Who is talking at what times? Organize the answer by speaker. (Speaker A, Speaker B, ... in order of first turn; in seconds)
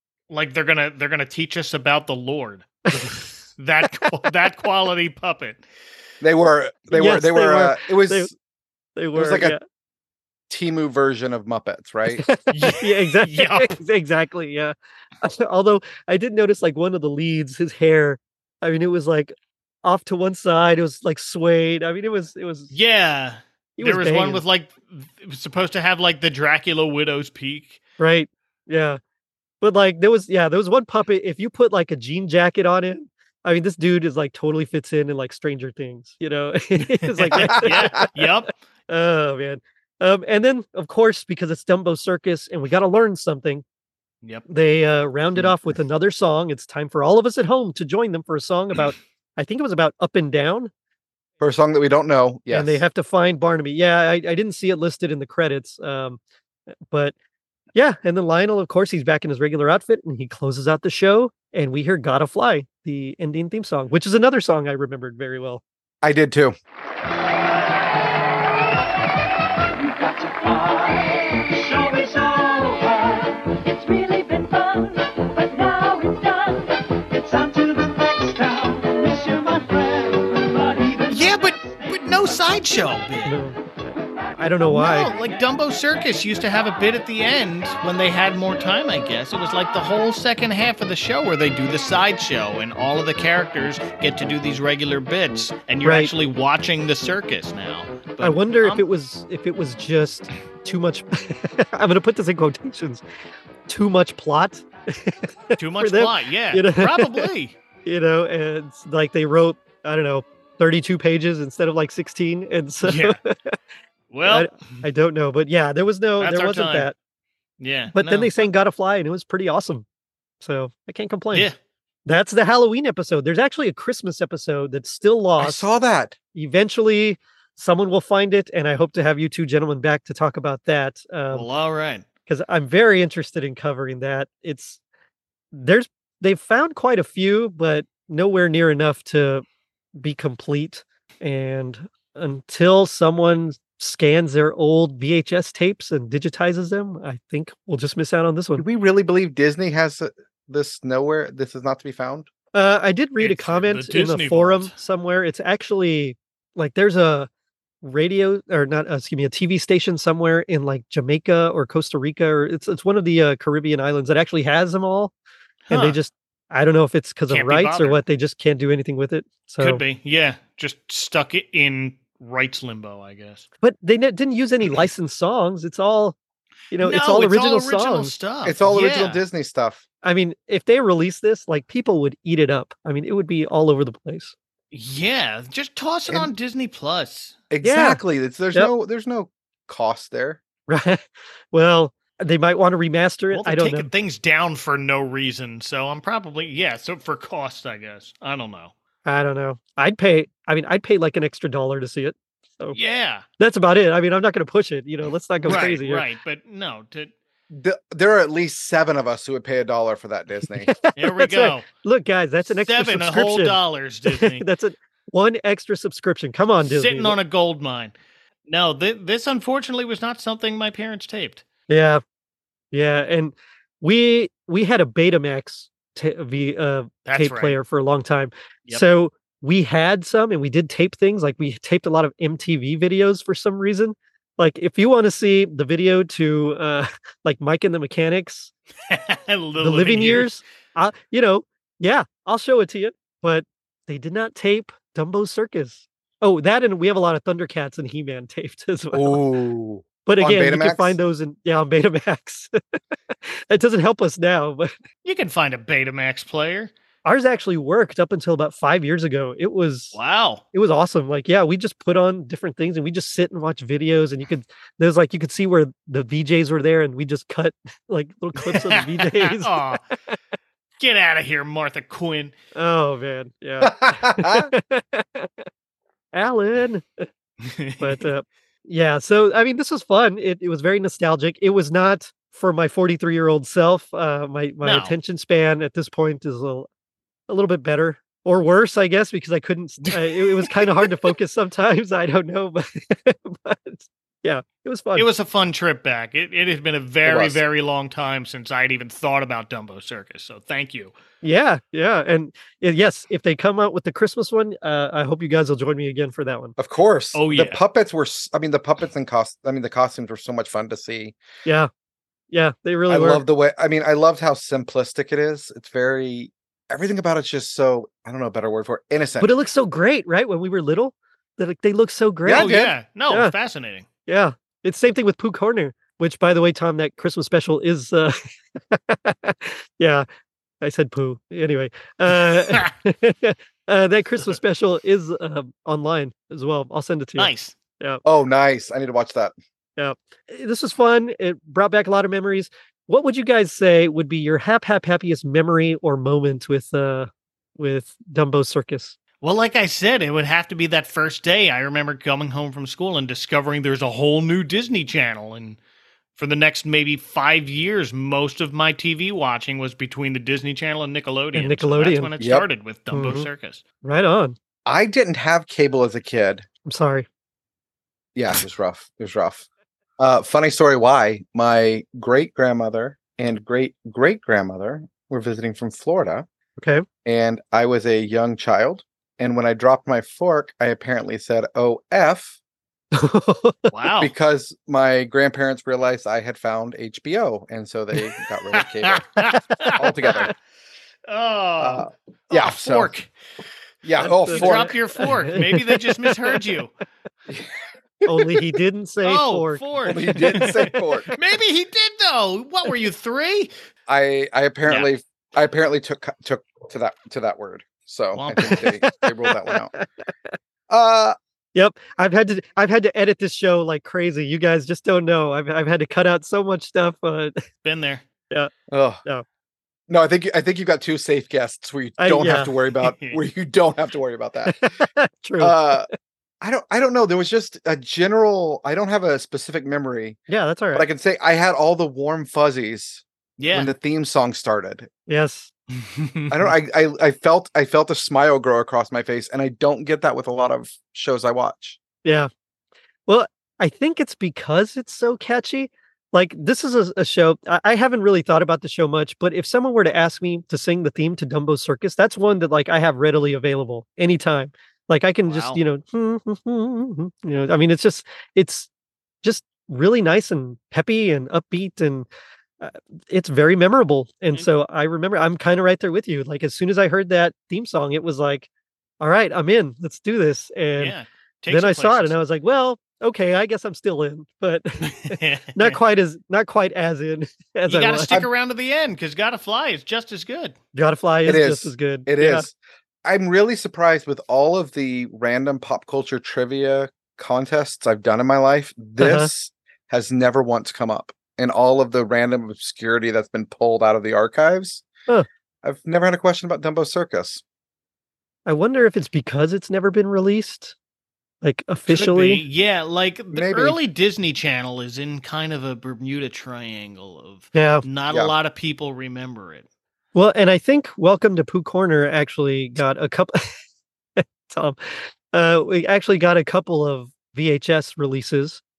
Speaker A: 0.3-5.6, 12.5-13.7, 22.7-27.8, 36.8-38.5, 81.1-83.4, 84.7-98.8, 105.6-107.5, 112.8-113.2, 114.1-114.8, 116.2-116.9, 117.6-118.5, 131.3-132.0, 153.2-154.8, 165.7-166.0, 167.3-168.0, 169.6-173.4, 176.8-179.2, 184.7-187.4, 193.3-198.7, 202.7-203.2, 205.4-207.1, 211.0-211.7, 212.5-214.4, 216.6-217.9, 218.4-221.4, 227.1-227.6, 238.9-240.3, 255.0-256.7, 259.9-260.4, 268.4-269.8, 270.8-272.3, 277.4-278.0, 284.6-284.9, 289.9-290.9, 294.9-300.9, 307.1-307.6, 322.3-323.9, 332.3-332.7, 337.2-337.6, 349.2-355.6, 356.1-363.6, 383.7-384.1, 388.5-390.1, 391.1-393.1, 394.3-396.7, 399.0-400.6, 401.1-403.5, 408.1-408.6, 417.6-418.0, 422.8-423.2, 433.4-433.7, 435.8-436.4, 455.3-455.6, 470.8-472.2, 474.8-475.8, 477.7-480.5, 501.9-509.6
Speaker B: 6.2-8.3, 9.1-9.6, 10.5-12.2, 37.3-38.0, 51.4-52.8, 66.0-66.5, 125.4-126.2, 148.6-152.3, 178.4-179.8, 187.5-190.4, 207.5-210.7, 248.9-251.0, 273.6-274.5, 297.0-297.4, 306.6-311.1, 312.9-319.3, 322.2-322.7, 338.0-339.3, 362.2-362.4, 364.6-366.4, 368.1-369.4, 370.0-376.3, 377.0-382.4, 384.0-390.3, 391.6-392.9, 393.8-394.8, 398.0-398.4, 399.9-401.1, 403.9-409.7, 410.7-411.2, 418.7-419.0, 419.9-424.6, 425.4-425.9, 426.4-430.2, 430.7-434.9, 436.3-441.8, 481.2-494.8, 495.6-497.4, 503.3-503.8
Speaker C: 6.9-8.3, 8.9-9.6, 12.2-22.7, 23.8-24.4, 28.0-29.0, 29.6-38.3, 38.9-43.6, 44.5-50.7, 52.5-56.2, 57.7-65.6, 83.2-83.8, 84.4-85.1, 95.8-96.1, 98.2-103.0, 103.7-107.3, 107.8-113.6, 114.2-116.9, 117.9-119.8, 120.4-121.5, 122.0-125.7, 126.3-131.5, 132.3-134.8, 135.5-139.4, 140.0-148.6, 152.5-157.3, 157.8-165.1, 165.7-169.8, 173.6-176.2, 176.7-178.1, 180.0-184.3, 187.6-188.0, 190.7-193.9, 199.0-202.8, 203.4-206.0, 210.6-217.2, 221.7-222.0, 222.7-238.5, 239.6-249.2, 250.0-252.5, 253.1-254.7, 257.0-260.0, 260.5-270.2, 272.5-275.4, 276.1-277.1, 277.8-286.7, 287.3-295.1, 301.2-306.5, 312.3-313.2, 319.2-322.5, 323.1-323.3, 324.1-328.1, 328.7-330.1, 330.6-338.0, 339.8-348.9, 361.3-362.1, 362.9-363.3, 363.8-364.4, 366.7-367.1, 376.6-376.8, 382.9-383.7, 394.0-396.4, 398.0-399.6, 400.3-400.8, 408.5-409.9, 411.5-417.3, 422.0-422.5, 424.5-425.8, 430.3-430.9, 435.1-435.5, 442.0-442.3, 443.1-458.7, 459.2-462.1, 462.6-468.5, 469.0-470.9, 471.5-478.1, 480.7-482.4, 489.0-489.3, 498.4-500.7, 501.4-502.4, 507.5-507.8, 510.1-513.5, 514.2-514.8, 515.3-518.6
Speaker D: 70.0-70.6, 73.9-74.4, 75.5-76.4, 77.3-77.6